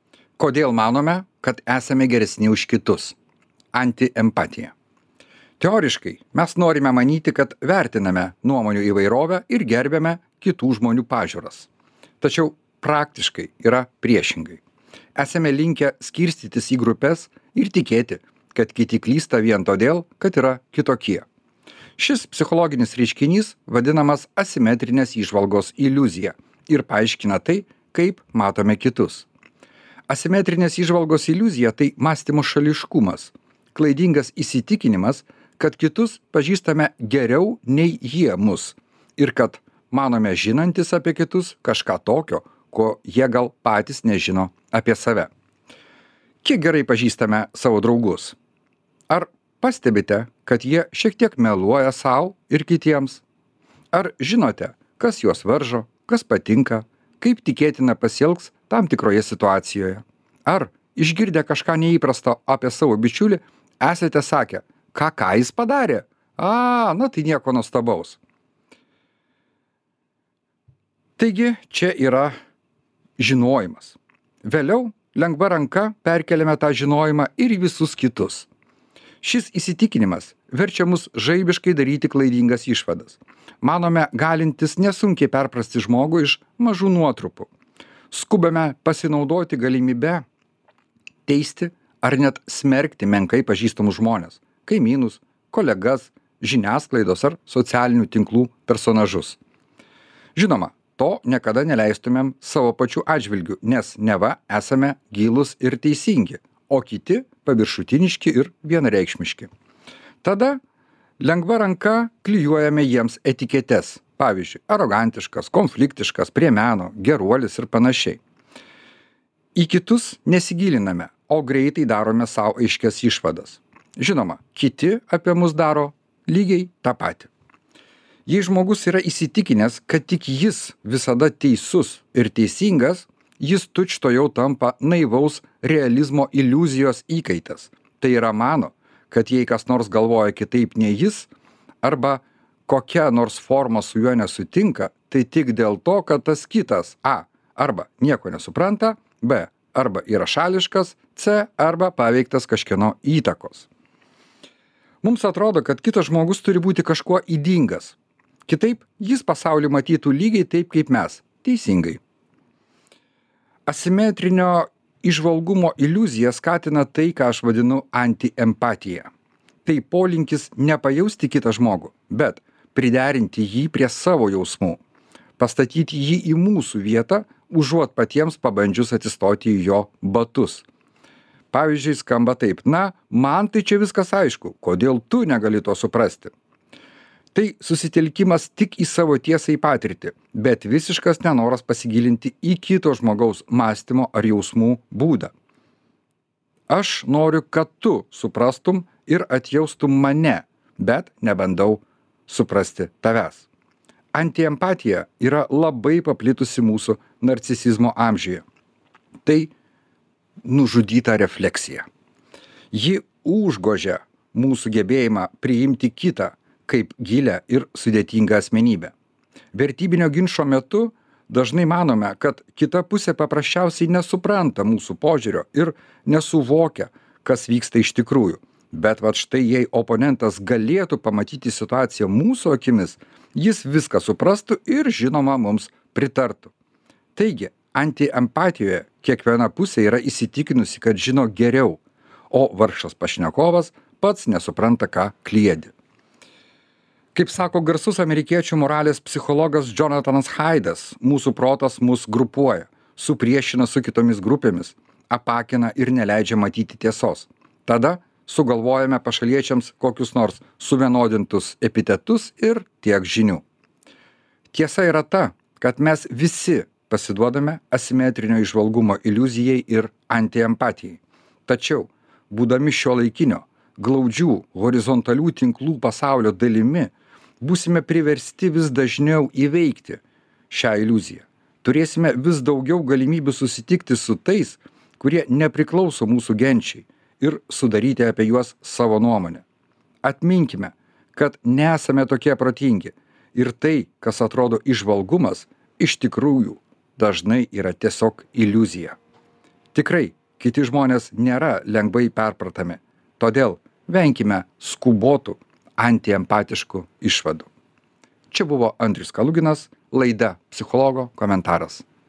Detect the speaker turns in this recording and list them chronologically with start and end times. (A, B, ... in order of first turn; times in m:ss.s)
0:00.4-0:03.2 A
0:03.7-0:04.7 A
0:05.6-0:11.7 A
0:12.2-0:14.6 A
0:15.2-0:21.3 A
0:22.0-0:29.3 A
0:30.1-0:45.3 A
0:46.4-0:48.4 A
0:49.1-0:53.2 A
0:53.9-1:08.2 A
1:11.2-1:12.3 A
1:13.2-1:18.5 A
1:19.2-1:27.5 A
1:28.1-1:30.2 A
1:31.3-1:39.4 A
1:40.4-1:49.5 A
1:50.2-1:50.6 A
1:51.2-1:58.2 A
1:59.6-2:07.3 A
2:08.3-2:21.3 A
2:21.8-2:33.7 A
2:35.0-2:42.0 A
2:43.7-2:49.1 A
2:49.6-2:54.8 A
2:55.4-3:00.7 A
3:01.5-3:06.3 A
3:07.3-3:15.3 A
3:16.7-3:23.5 A
3:24.1-3:28.4 A
3:29.3-3:29.5 A
3:30.4-3:31.8 A
3:32.7-3:38.9 A
3:39.5-3:56.5 A
3:57.2-4:05.7 A
4:07.2-4:23.4 A
4:24.5-4:49.4 A
4:50.0-4:59.0 A
4:59.7-5:07.5 A
5:08.3-5:11.8 A